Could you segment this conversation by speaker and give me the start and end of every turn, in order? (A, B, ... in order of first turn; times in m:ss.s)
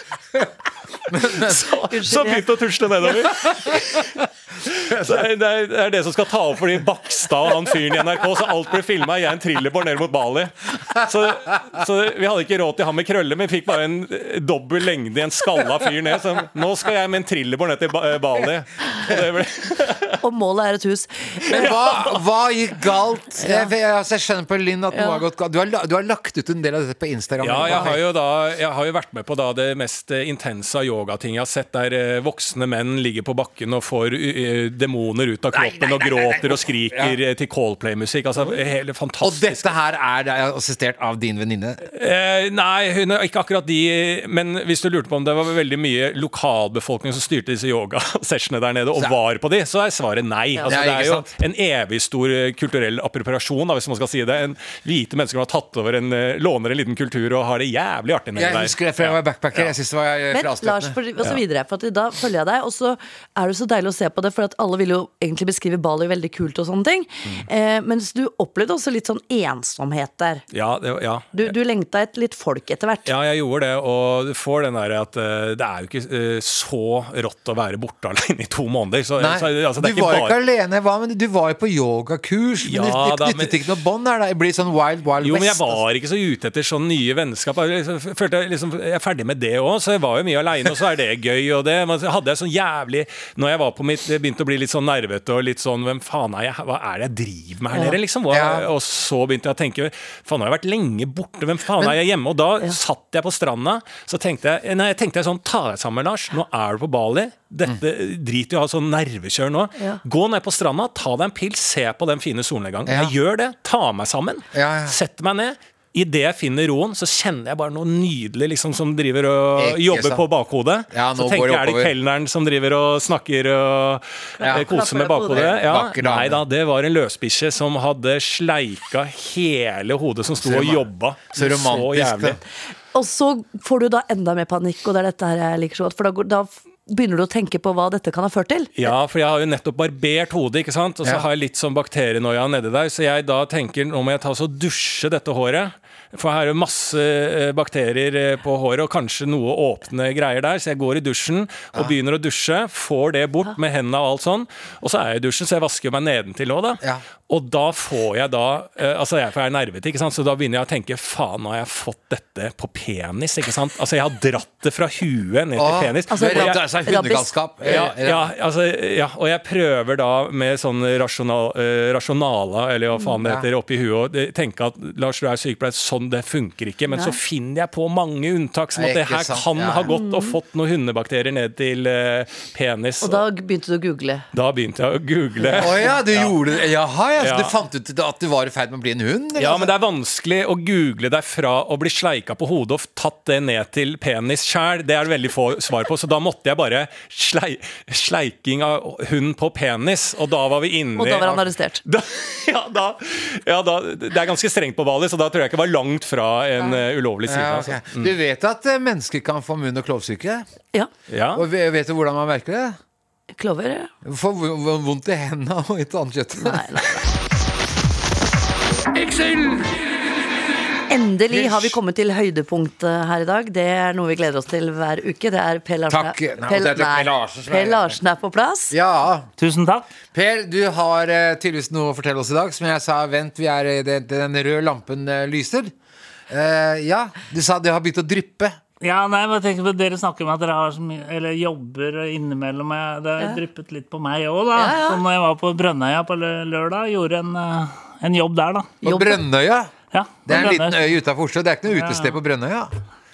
0:01.1-0:01.7 A
0:01.3-0:20.2 B
0:01.9-0:02.4 C
0:03.4-0:03.8 A
0:04.9-0:05.2 A
0:20.2-0:21.7 C
0:21.5-0:22.1 B
0:21.5-0:28.0 A
0:23.4-0:23.7 C
0:24.9-0:25.2 C
0:27.4-0:39.7 B
0:35.5-0:37.2 A
0:39.2-0:41.8 A
0:41.9-0:59.7 B
0:50.6-0:51.3 A
0:58.4-1:01.0 A
1:00.3-1:10.4 C
1:10.5-1:11.5 B
1:11.3-1:13.1 C
1:13.0-1:20.4 B
1:19.2-1:25.8 A
1:22.6-1:23.6 B
1:25.2-2:12.4 B
1:38.3-1:38.7 A
1:52.8-1:53.1 A
1:54.5-1:55.0 A
1:59.6-2:00.2 A
2:00.9-2:01.9 A
2:04.4-2:05.5 C
2:04.4-2:06.4 A
2:10.4-2:12.4 A
2:12.9-2:18.7 C
2:18.8-2:46.6 B
2:45.6-2:48.3 A
2:46.1-2:47.3 C
2:47.6-3:03.2 B
2:53.2-2:53.4 A
2:56.9-2:57.2 C
2:58.7-2:59.9 A
2:59.9-3:00.4 C
3:03.0-3:04.2 C
3:04.3-3:06.3 B
3:05.4-3:05.8 C
3:05.6-3:09.7 A
3:07.2-3:07.5 B
3:09.4-3:28.1 B
3:21.0-3:21.8 C
3:27.2-3:30.4 A
3:31.1-3:31.4 B
3:31.3-3:32.8 A
3:33.3-3:33.9 C
3:34.0-3:37.0 A
3:36.4-3:37.1 C
3:40.9-3:48.7 C
3:41.3-3:41.8 A
3:45.9-3:48.0 A
3:48.7-3:49.3 A
3:49.4-3:49.9 D
3:50.1-3:55.7 A
3:56.3-3:58.6 A
3:58.8-4:08.7 D
4:04.5-4:05.0 C
4:08.8-4:09.7 A
4:08.8-4:09.2 C
4:09.9-4:10.9 D
4:10.3-4:12.7 A
4:11.7-4:12.1 D